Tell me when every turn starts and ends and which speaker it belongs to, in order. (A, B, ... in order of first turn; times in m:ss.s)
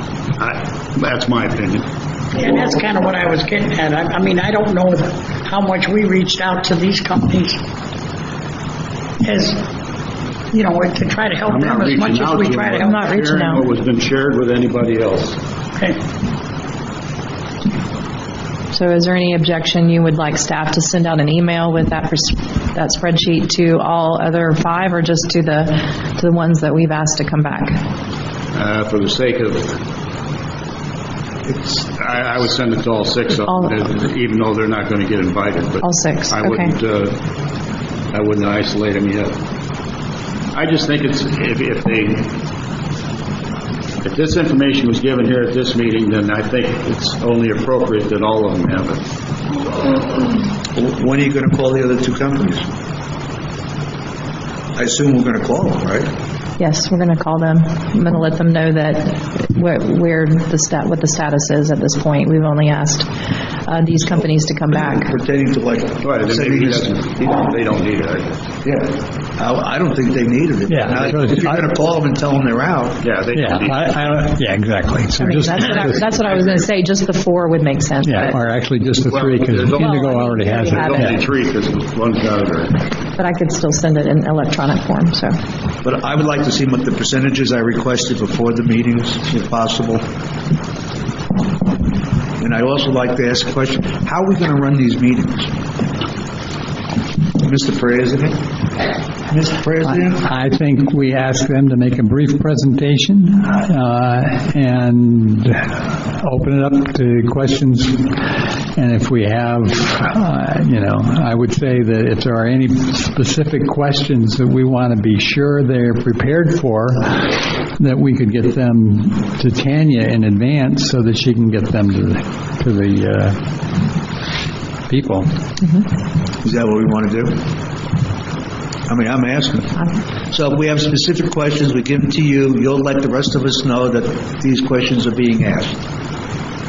0:00.4-0:01.9 A
0:02.4-0:07.6 B
0:09.2-0:09.6 B
0:10.5-0:13.1 B
0:11.5-0:15.4 A
0:12.8-0:13.7 C
0:18.7-0:27.8 C
0:28.5-0:29.8 A
0:31.5-0:31.8 D
0:31.9-0:37.2 A
0:33.5-0:33.8 C
0:35.8-0:36.7 C
0:38.1-0:39.4 A
0:40.5-0:42.3 A
0:44.0-0:49.0 A
0:50.8-0:52.7 D
0:54.8-0:56.1 D
0:56.6-1:03.1 C
1:03.7-1:05.2 C
1:04.7-1:07.3 D
1:06.0-1:08.3 A
1:08.6-1:13.0 D
1:10.7-1:11.6 E
1:13.0-1:14.2 A
1:13.3-1:16.1 E
1:15.2-1:18.4 C
1:16.0-1:16.7 A
1:18.0-1:21.2 E
1:19.0-1:22.8 A
1:19.7-1:21.2 C
1:23.2-1:25.4 C
1:25.8-1:30.0 D
1:32.4-1:35.5 D
1:37.4-1:38.4 D
1:39.3-1:40.2 D
1:39.9-2:03.4 E
2:04.9-2:05.3 E
2:05.6-2:05.9 C
2:06.4-2:07.4 D
2:08.9-2:09.8 D
2:10.3-2:15.8 D